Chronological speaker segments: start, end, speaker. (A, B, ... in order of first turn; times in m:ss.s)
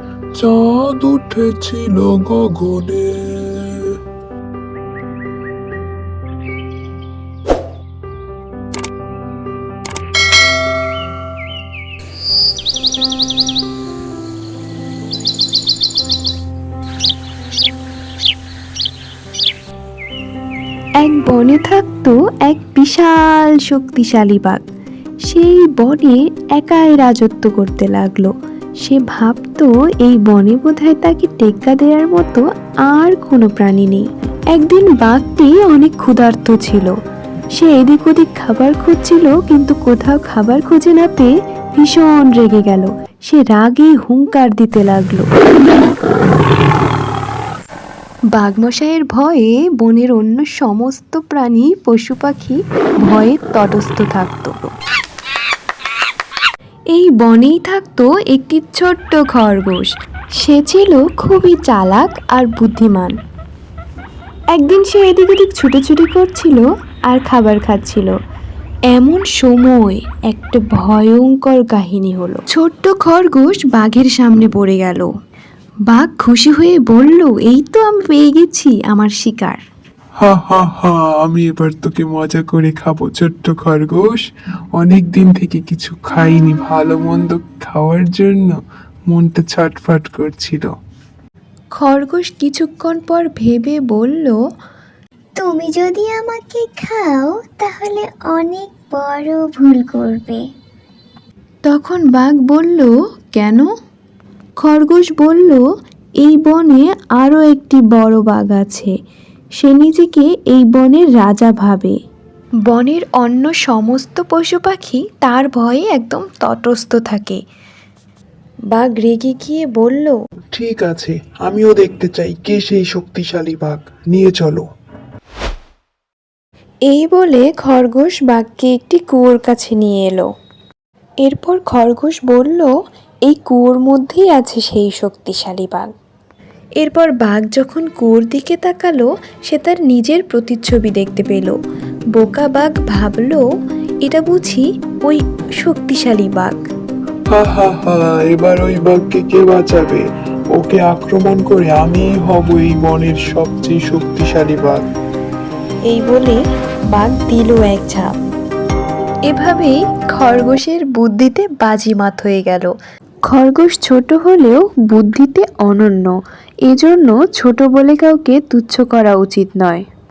0:00.4-0:03.7 A
0:21.0-0:24.6 B
0:25.2-0:36.9 B
0:37.5-0:45.3 B
0:48.3-0:54.7 B
0:56.9-1:03.1 B
1:04.5-1:08.1 B
1:08.9-1:15.1 B
1:15.9-1:19.6 B
1:20.2-1:24.2 A
1:24.8-1:28.5 A
1:29.1-1:30.7 A
1:31.8-1:34.4 B
1:35.4-1:40.5 C
1:41.6-1:43.7 B
1:44.6-1:45.6 B
1:46.2-1:48.9 B
1:49.6-1:52.0 B
1:52.7-1:57.4 B
1:58.7-2:00.2 B
2:00.5-2:04.6 A
2:06.9-2:10.3 B
2:11.2-2:12.7 B
2:13.3-2:15.9 B
2:16.8-2:21.6 B
2:22.1-2:23.4 B
2:24.0-2:26.6 B
2:27.3-2:34.9 A
2:35.9-2:38.1 B
2:39.3-2:42.7 B
2:43.3-2:46.1 B
2:46.7-2:49.8 B